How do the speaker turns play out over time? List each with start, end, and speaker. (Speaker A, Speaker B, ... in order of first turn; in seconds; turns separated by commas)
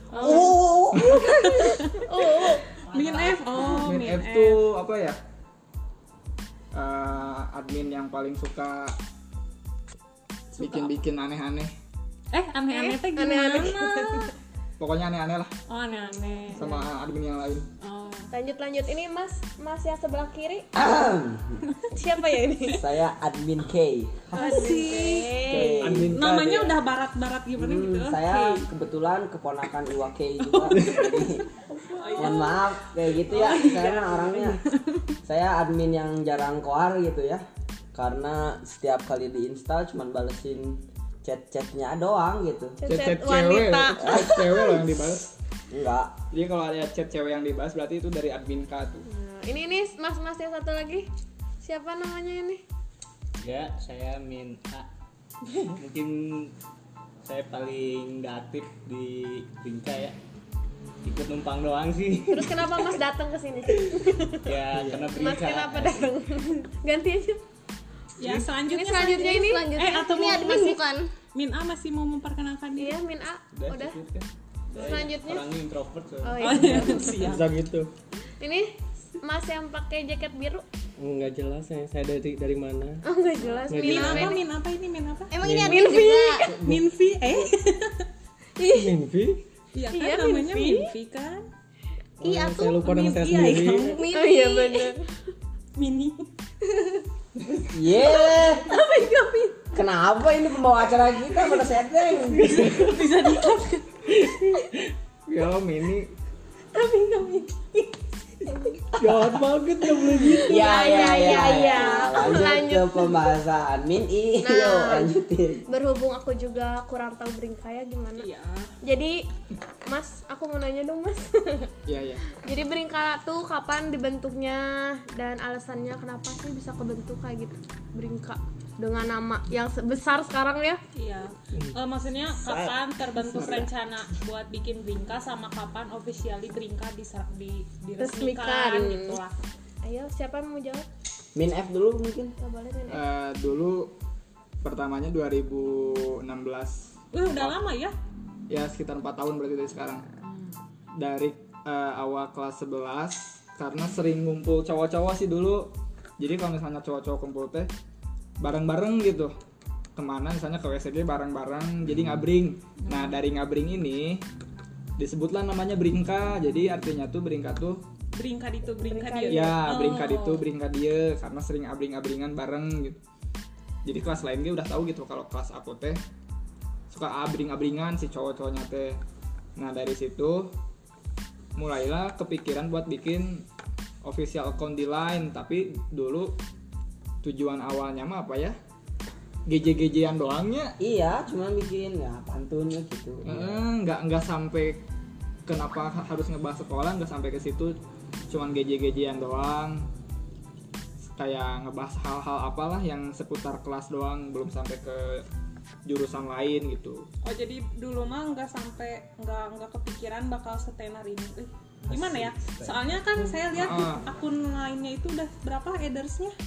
Speaker A: 0.1-0.6, Speaker B: 0.2-3.8, Speaker C: 0.2-1.4, Speaker D: 1.0-1.2, Speaker A: 1.8-4.6, Speaker D: 3.6-5.2, Speaker D: 6.7-9.0, Speaker A: 10.6-11.0, Speaker D: 10.6-11.7, Speaker A: 12.3-14.3, Speaker B: 12.7-14.3, Speaker D: 14.8-15.5, Speaker A: 15.7-16.6, Speaker B: 15.9-16.8, Speaker D: 16.5-17.7, Speaker A: 17.8-18.3, Speaker B: 18.3-20.7, Speaker C: 20.7-21.7, Speaker B: 21.9-22.8, Speaker C: 22.7-24.7, Speaker B: 24.3-26.0, Speaker A: 24.3-28.7, Speaker C: 25.5-26.6, Speaker D: 25.8-26.7, Speaker C: 27.6-31.4, Speaker A: 30.4-31.4, Speaker B: 31.7-32.5, Speaker A: 31.9-32.6, Speaker C: 32.2-34.6, Speaker A: 33.2-35.1, Speaker C: 35.2-42.8, Speaker B: 42.8-44.8, Speaker D: 42.9-45.3, Speaker C: 44.0-44.5, Speaker C: 45.7-46.1, Speaker D: 46.3-49.0, Speaker B: 49.1-51.1, Speaker B: 51.6-52.6, Speaker E: 53.4-54.9, Speaker E: 55.6-56.5, Speaker E: 57.2-60.2, Speaker E: 61.0-62.9, Speaker B: 62.3-64.5, Speaker E: 63.7-66.1, Speaker F: 64.7-65.0, Speaker B: 65.0-67.4, Speaker A: 68.2-70.8, Speaker B: 68.7-69.7, Speaker G: 69.4-71.1, Speaker A: 71.3-73.0, Speaker B: 72.8-74.0, Speaker E: 73.5-77.2, Speaker B: 74.8-75.4, Speaker B: 76.2-77.3, Speaker A: 76.4-77.4, Speaker F: 77.2-77.9, Speaker B: 78.4-80.6, Speaker F: 81.0-83.0, Speaker B: 83.0-84.4, Speaker A: 83.5-85.3, Speaker F: 83.7-84.4, Speaker G: 85.3-86.5, Speaker F: 85.4-86.9, Speaker B: 85.7-86.5, Speaker A: 86.5-88.1, Speaker G: 88.6-88.9, Speaker F: 88.7-89.4, Speaker A: 89.7-91.5, Speaker B: 89.9-90.9, Speaker F: 92.2-94.0, Speaker G: 92.2-94.9, Speaker A: 92.8-94.0, Speaker B: 94.1-95.1, Speaker A: 95.8-96.3, Speaker C: 97.7-98.7, Speaker G: 98.0-99.2, Speaker C: 99.7-102.7, Speaker A: 102.4-103.8, Speaker F: 102.5-103.1, Speaker F: 104.1-104.7, Speaker D: 105.3-106.1, Speaker C: 108.9-109.5, Speaker F: 109.0-111.2, Speaker C: 110.4-115.6, Speaker B: 110.4-113.3, Speaker B: 114.4-115.1, Speaker B: 115.7-118.3, Speaker A: 118.2-118.7, Speaker B: 118.8-119.2, Speaker B: 119.9-121.7, Speaker D: 121.9-122.2, Speaker B: 122.3-130.8, Speaker A: 130.9-139.3, Speaker E: 132.3-132.8, Speaker D: 133.3-133.7, Speaker B: 138.0-139.2, Speaker B: 139.8-140.9, Speaker C: 141.3-142.3, Speaker B: 142.4-143.0, Speaker D: 142.9-143.9, Speaker D: 144.6-147.6, Speaker A: 147.1-147.9, Speaker D: 148.5-150.1, Speaker A: 150.2-150.6, Speaker D: 150.9-157.7, Speaker D: 158.4-159.3, Speaker D: 159.9-164.2, Speaker A: 162.8-163.2, Speaker D: 165.0-167.8, Speaker A: 168.1-170.4, Speaker B: 168.9-169.6, Speaker D: 169.3-173.0, Speaker D: 173.8-176.0, Speaker D: 176.9-179.0, Speaker D: 179.6-180.5, Speaker D: 181.6-183.4, Speaker D: 184.0-186.3, Speaker D: 187.2-188.6, Speaker D: 189.4-190.7, Speaker C: 190.8-193.6, Speaker D: 193.2-194.8, Speaker D: 195.4-197.8, Speaker D: 198.3-199.9, Speaker D: 201.2-205.2, Speaker D: 205.9-207.1, Speaker A: 207.2-216.3, Speaker E: 211.9-213.0, Speaker D: 213.6-214.0